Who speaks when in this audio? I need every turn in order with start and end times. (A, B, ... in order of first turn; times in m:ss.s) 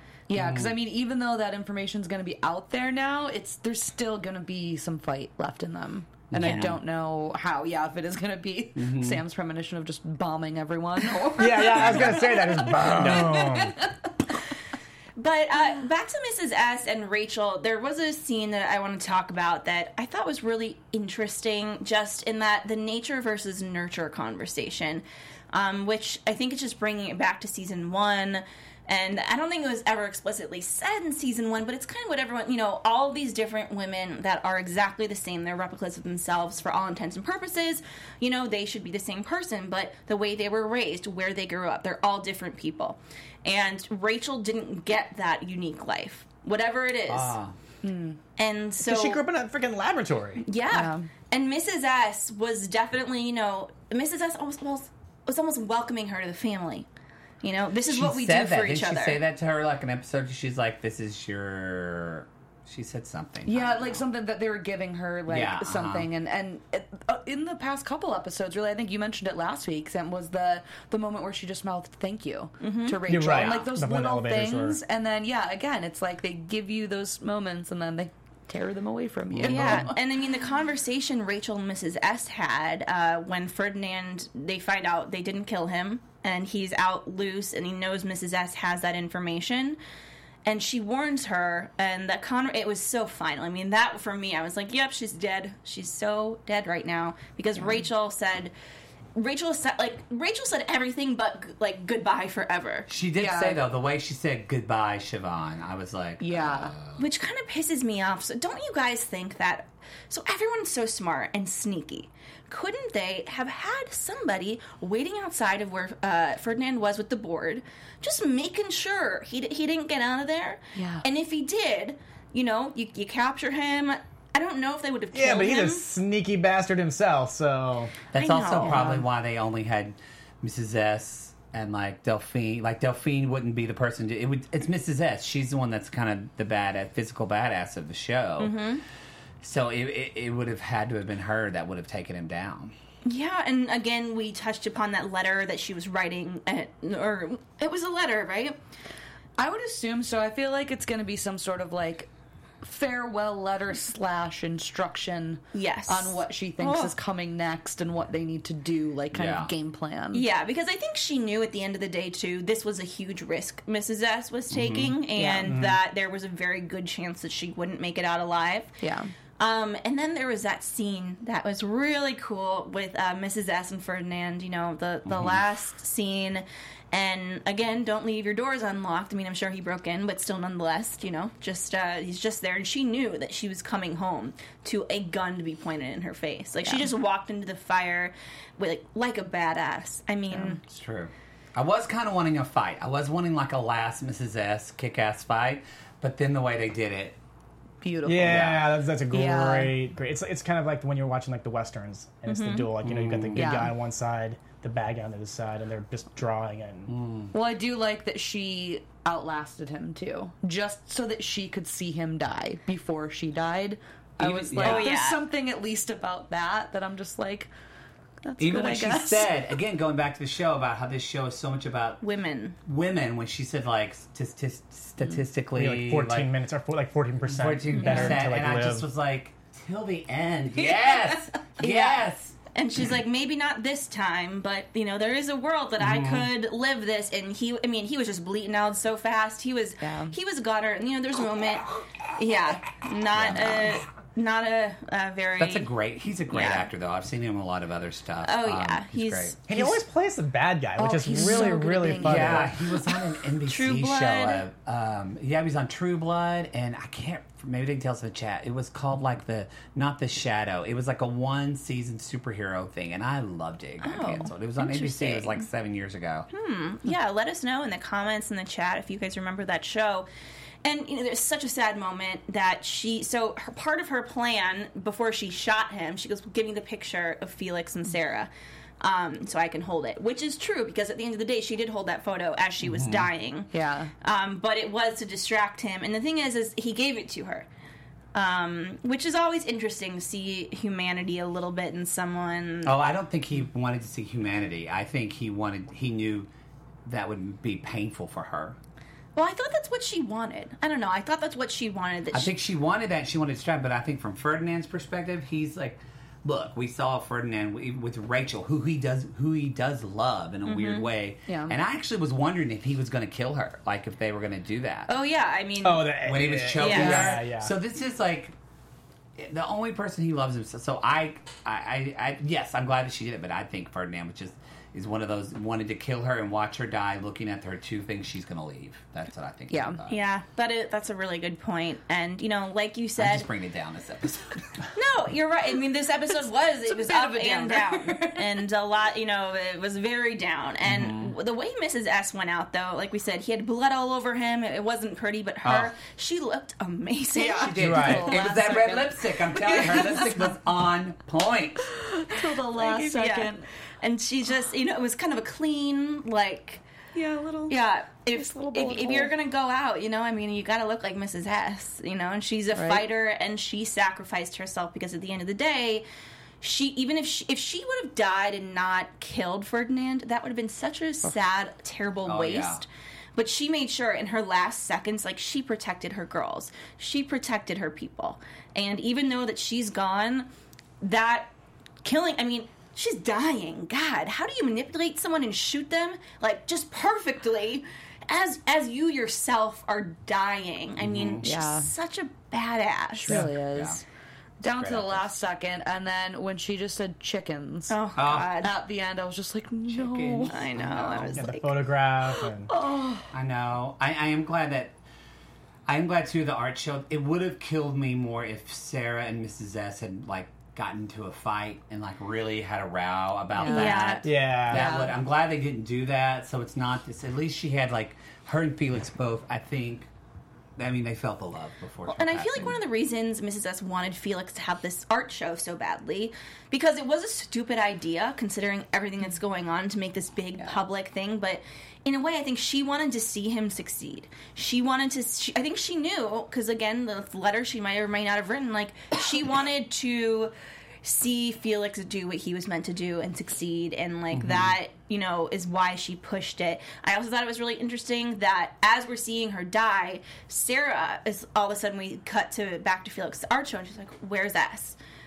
0:00.3-0:14.1 A
0:00.3-0:00.7 B
0:06.3-0:06.8 B
0:06.4-0:06.7 C
0:08.8-0:09.2 B
0:11.4-0:13.8 D
0:15.2-0:47.4 C
0:47.1-0:47.6 B
0:47.8-0:48.2 A
0:48.4-0:49.2 C
0:48.8-0:50.4 D
0:50.4-0:56.9 C
0:50.7-0:51.1 A
0:57.4-0:59.2 C
0:57.9-1:04.0 B
1:03.4-1:19.9 A
1:05.3-1:06.1 B
1:12.6-1:13.0 C
1:13.1-1:14.8 D
1:19.3-1:19.9 B
1:19.4-1:29.8 C
1:30.4-1:38.5 C
1:37.6-1:37.8 A
1:39.1-1:42.9 C
1:42.9-1:47.0 B
1:43.2-1:43.6 A
1:46.2-1:46.7 A
1:47.0-2:05.8 C
2:00.8-2:01.0 A
2:05.1-2:07.9 D
2:08.1-2:18.6 B
2:08.1-2:09.0 C
2:08.6-2:09.0 A
2:18.4-2:18.8 C
2:19.4-2:22.7 B
2:23.0-2:28.6 C
2:29.4-2:32.1 A
2:32.6-2:40.2 A
2:35.5-2:36.9 C
2:39.1-2:39.5 B
2:40.1-2:48.8 C
2:44.5-2:45.0 B
2:45.1-2:45.6 A
2:45.5-2:45.7 B
2:48.8-2:49.1 A
2:49.4-3:10.6 C
2:55.1-2:55.4 B
3:10.3-3:10.6 A
3:10.6-3:17.2 B
3:17.8-3:19.7 A
3:18.0-3:27.0 D
3:18.2-3:18.6 B
3:22.3-3:22.7 C
3:22.8-3:23.6 B
3:23.4-3:23.7 A
3:26.9-3:27.3 B
3:27.3-3:37.5 A
3:34.2-3:35.0 B
3:34.6-3:35.2 C
3:38.2-3:39.3 A
3:38.4-3:42.0 B
3:42.0-3:42.6 C
3:42.6-3:46.3 B
3:45.6-3:48.9 D
3:47.3-3:52.3 B
3:47.7-3:48.2 C
3:50.6-3:51.2 A
3:51.6-4:05.7 C
3:55.8-3:56.3 B
3:59.8-4:00.2 A
4:03.1-4:03.8 B
4:05.4-4:09.8 B
4:06.3-4:06.7 C
4:08.2-4:09.3 C
4:09.5-4:12.5 D
4:10.8-4:12.6 A
4:12.0-4:26.3 B
4:13.4-4:14.4 C
4:23.8-4:25.4 C
4:26.3-4:30.1 C
4:30.6-4:38.3 C
4:38.8-4:47.4 C
4:42.6-4:43.1 B
4:43.5-4:43.9 A
4:48.1-4:52.7 C
4:52.6-4:56.3 B
4:56.8-4:58.6 B
4:59.1-5:02.4 C
5:02.1-5:14.9 B
5:10.4-5:10.9 C
5:11.3-5:11.6 A
5:14.9-5:17.2 C
5:15.6-5:17.5 D
5:15.9-5:18.3 B
5:19.2-5:30.0 B
5:29.5-5:29.8 A
5:29.9-5:33.3 C
5:33.0-5:34.7 B
5:34.7-5:47.9 C
5:36.7-5:38.3 A
5:40.6-5:41.1 B
5:45.4-5:45.7 B
5:47.1-5:50.4 A
5:47.4-5:51.8 B
5:47.7-5:48.1 D
5:51.8-5:53.4 A
5:52.6-5:56.6 C
5:57.0-5:57.6 A
5:57.5-6:05.8 C
5:58.1-5:59.1 A
6:02.6-6:02.8 A
6:06.4-6:20.3 C
6:12.0-6:12.6 B
6:20.8-6:21.3 C
6:21.8-6:33.2 C
6:30.8-6:31.2 B
6:31.2-6:31.7 A
6:33.0-6:33.8 A
6:33.1-6:33.8 B
6:34.4-6:37.8 A
6:34.5-6:35.0 B
6:37.7-6:38.5 C
6:38.0-6:38.4 B
6:38.4-6:40.4 A
6:39.7-6:41.2 B
6:40.3-6:41.6 C
6:41.2-6:42.5 D
6:42.1-6:43.1 A
6:43.1-6:44.7 B
6:45.7-6:59.9 B
6:53.4-6:53.8 A
6:53.4-6:54.1 C
6:54.0-6:54.7 D
6:54.5-6:55.0 A
7:00.6-7:02.6 B
7:01.9-7:20.3 C
7:20.8-7:34.8 C
7:24.1-7:24.6 B